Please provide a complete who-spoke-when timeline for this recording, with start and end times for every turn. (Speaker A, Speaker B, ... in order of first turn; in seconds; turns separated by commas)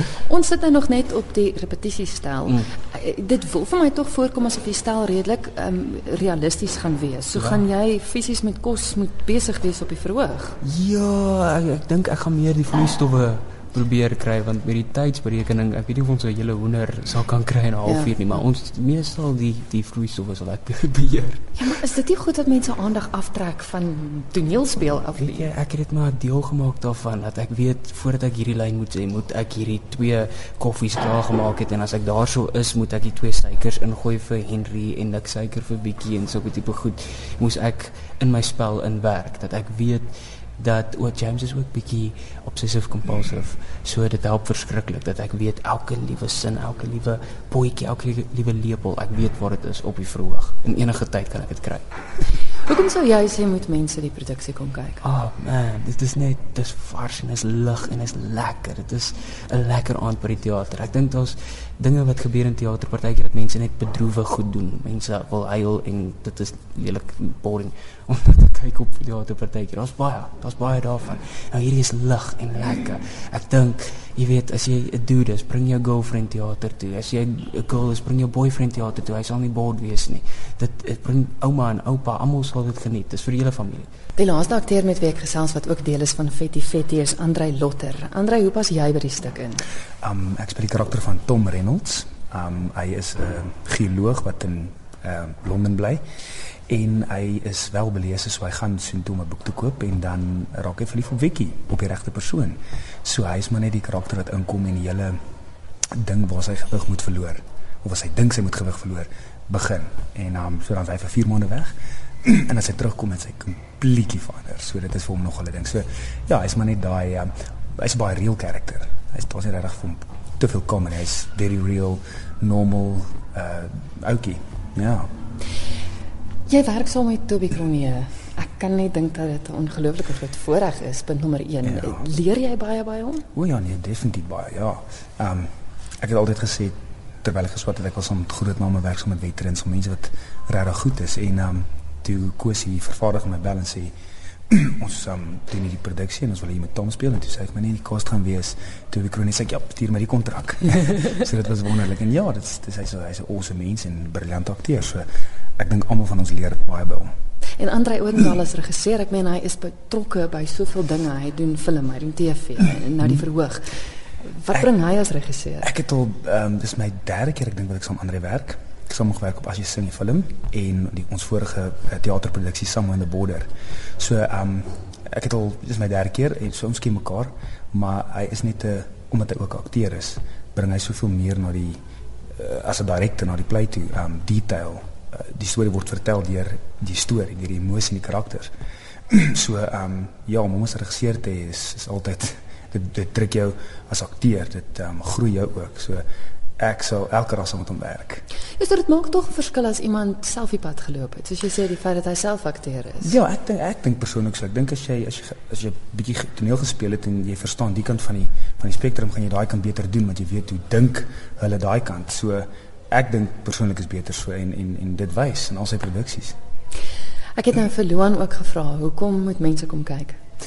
Speaker A: 0.2-10.6, Speaker B: 7.4-7.6, Speaker B: 10.6-21.5, Speaker A: 17.9-18.1, Speaker A: 21.6-25.5, Speaker B: 25.2-51.9, Speaker A: 52.6-55.0, Speaker B: 55.0-83.9, Speaker A: 84.2-89.6, Speaker C: 90.1-96.0, Speaker C: 96.7-105.1, Speaker C: 106.0-111.7, Speaker C: 112.3-125.1, Speaker A: 126.5-133.3, Speaker C: 133.4-135.5, Speaker C: 136.0-143.9, Speaker C: 144.5-157.1, Speaker A: 157.6-163.6, Speaker A: 164.2-165.7, Speaker C: 165.7-181.8, Speaker C: 182.4-188.5, Speaker C: 189.1-196.0, Speaker C: 196.6-198.2, Speaker A: 198.6-203.2, Speaker C: 203.2-216.4, Speaker A: 217.4-220.2